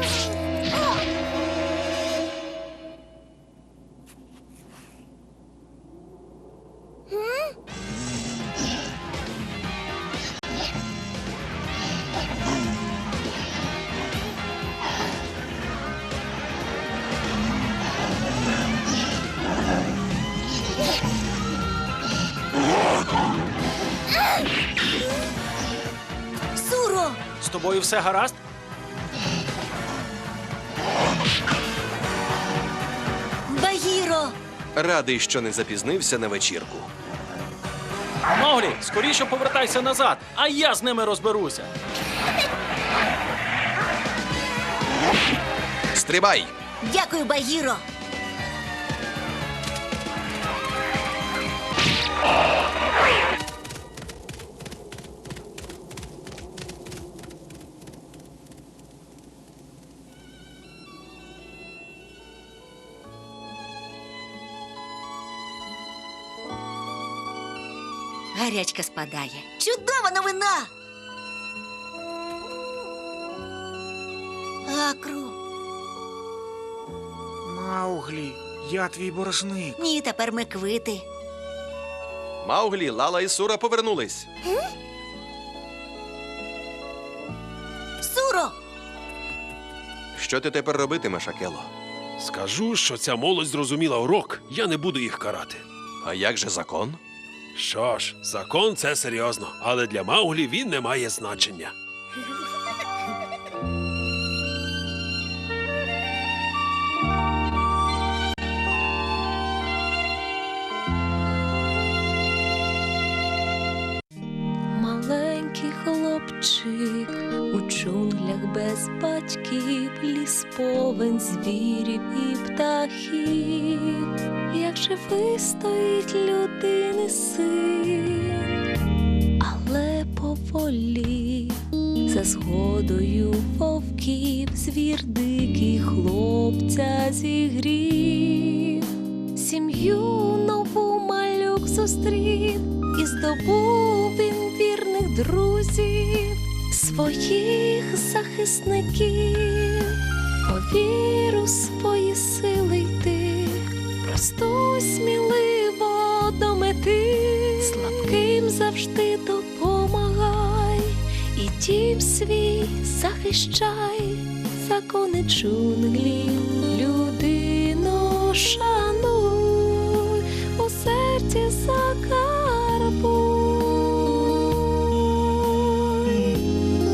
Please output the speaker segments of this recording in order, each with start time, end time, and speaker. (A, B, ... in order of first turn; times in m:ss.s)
0:26.5-0:27.2 A
0:27.4-0:28.4 B
0:33.5-0:34.3 A
0:34.8-0:36.9 C
0:38.3-0:41.7 B
0:45.9-0:46.5 C
0:46.8-0:47.8 A
1:08.3-1:10.7 A
1:14.7-1:15.4 A
1:17.4-1:19.7 D
1:19.8-1:21.0 A
1:22.4-1:24.3 C
1:28.0-1:28.5 A
1:30.1-1:31.7 C
1:32.2-1:35.6 E
1:36.0-1:37.0 C
1:37.5-1:41.7 E
1:54.7-2:08.5 F
2:09.4-2:56.3 F